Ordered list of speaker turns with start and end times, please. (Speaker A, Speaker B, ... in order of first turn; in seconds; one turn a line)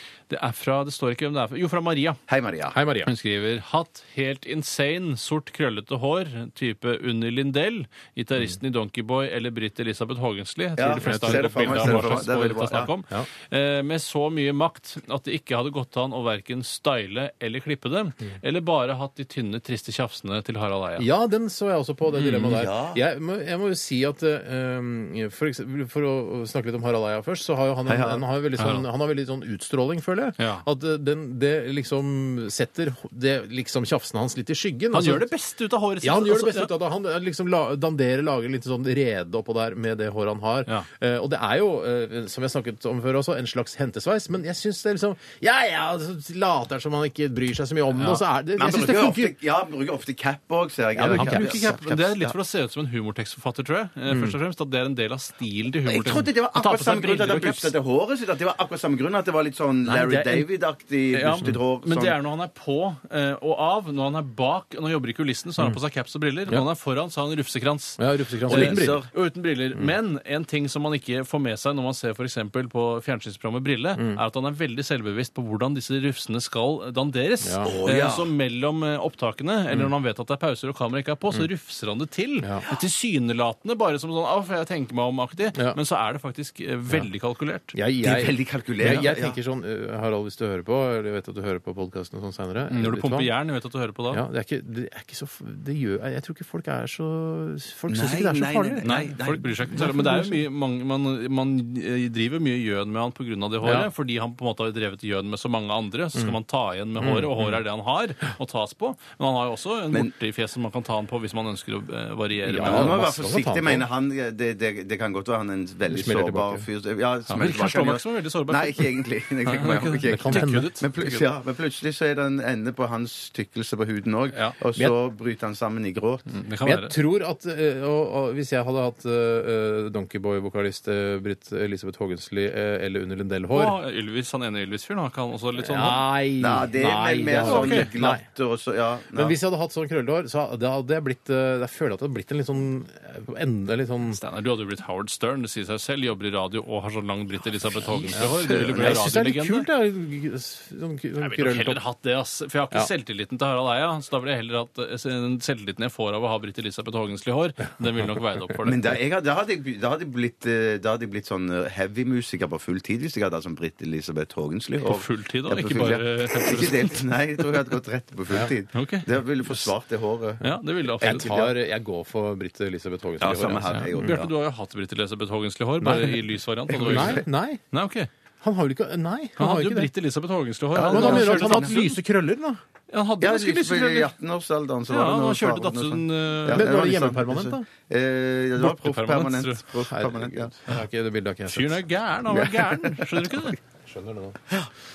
Speaker A: 0.3-2.2
Speaker B: 2.3-2.8
Speaker C: 2.7-3.1
Speaker A: 3.0-21.1
Speaker B: 10.8-12.9
Speaker C: 11.0-12.3
Speaker C: 21.0-35.2
Speaker A: 22.2-22.6
Speaker B: 22.4-23.0
Speaker B: 27.9-28.2
Speaker A: 28.6-28.9
Speaker A: 30.4-30.6
Speaker A: 34.9-36.7
Speaker C: 36.0-49.4
Speaker A: 48.0-48.2
Speaker B: 48.6-52.4
Speaker C: 51.0-51.6
Speaker A: 51.1-57.7
Speaker C: 54.1-54.3
Speaker B: 55.9-62.1
Speaker A: 59.9-60.5
Speaker A: 61.1-87.7
Speaker C: 68.0-69.0
Speaker B: 68.5-69.1
Speaker C: 77.4-77.7
Speaker B: 77.6-78.3
Speaker C: 87.7-93.3
Speaker B: 88.0-89.4
Speaker A: 92.7-94.2
Speaker C: 94.1-98.9
Speaker B: 97.9-99.6
Speaker A: 98.8-113.0
Speaker C: 99.7-100.4
Speaker C: 103.6-103.9
Speaker C: 107.0-107.5
Speaker C: 112.5-113.8
Speaker B: 112.6-126.3
Speaker C: 115.9-116.6
Speaker A: 117.3-121.2
Speaker C: 120.0-120.8
Speaker A: 126.3-127.0
Speaker C: 126.6-133.8
Speaker A: 133.5-136.1
Speaker C: 135.6-138.2
Speaker B: 136.4-139.4
Speaker A: 137.4-137.9
Speaker C: 139.1-144.2
Speaker A: 144.1-149.7
Speaker C: 148.1-151.8
Speaker B: 148.2-149.0
Speaker A: 151.2-158.9
Speaker B: 158.6-170.4
Speaker A: 164.8-167.4
Speaker A: 168.7-169.7
Speaker A: 170.4-171.4
Speaker C: 171.0-174.2
Speaker B: 171.0-171.5
Speaker B: 173.2-174.3
Speaker A: 173.7-178.1
Speaker C: 175.8-176.2
Speaker B: 176.7-177.2
Speaker C: 176.8-177.6
Speaker C: 178.4-179.9
Speaker A: 179.4-181.9
Speaker B: 180.7-181.8
Speaker C: 180.8-182.6
Speaker A: 182.9-184.1
Speaker B: 183.2-190.5
Speaker A: 184.9-186.7
Speaker C: 186.5-187.7
Speaker A: 188.6-189.7
Speaker C: 189.9-191.8
Speaker A: 191.5-193.6
Speaker B: 192.3-193.4
Speaker C: 193.9-194.4